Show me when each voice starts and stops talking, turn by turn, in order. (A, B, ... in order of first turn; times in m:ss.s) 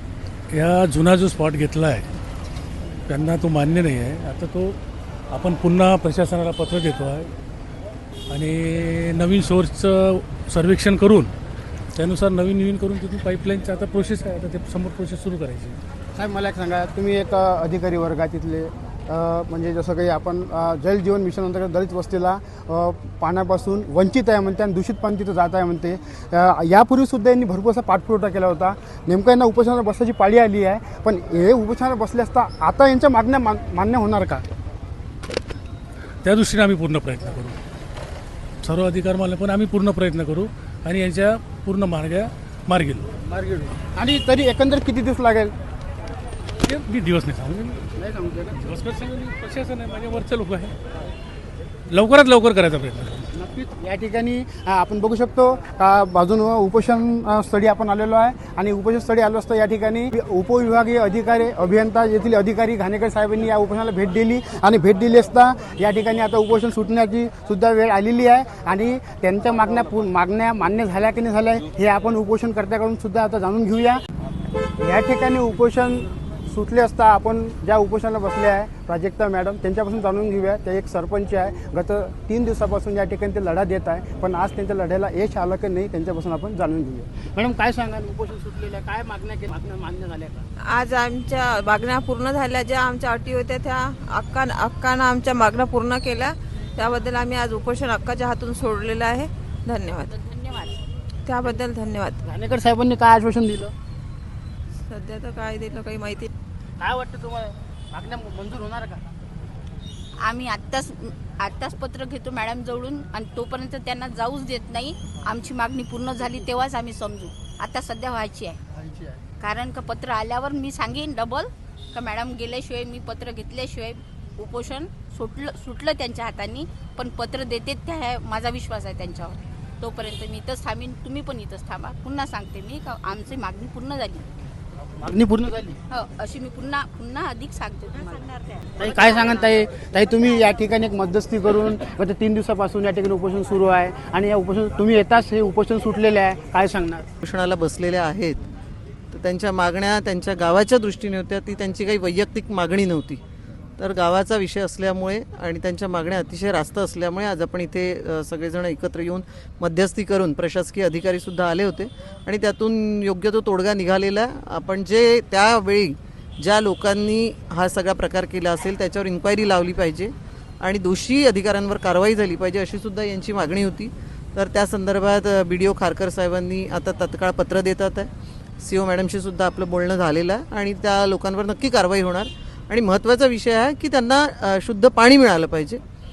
0:00.5-0:02.1 A
0:03.1-0:04.8 A
0:05.3-0:07.3 A
0:08.3-0:11.3 A
0:12.0-0:15.8 A
0:16.1-0:34.4 B
0:36.2-0:37.6 A
0:38.6-0:43.1 A
0:43.2-0:45.5 B
0:46.6-0:47.8 A
0:48.0-0:48.5 B
0:48.6-0:50.7 A
0:51.9-0:53.3 A
0:53.3-1:14.0 B
1:14.8-1:30.4 B
1:30.6-1:40.1 C
1:40.0-1:40.8 D
1:41.2-1:42.2 C
1:42.3-1:43.7 B
1:44.8-1:46.3 C
1:46.8-1:49.0 B
1:50.2-1:58.6 D
1:59.4-2:14.3 D
2:15.0-2:15.8 B
2:15.9-2:18.3 D
2:18.8-2:27.1 B
2:27.2-2:28.4 E
2:29.1-2:33.2 E
2:33.8-2:58.1 E
2:58.6-3:05.8 E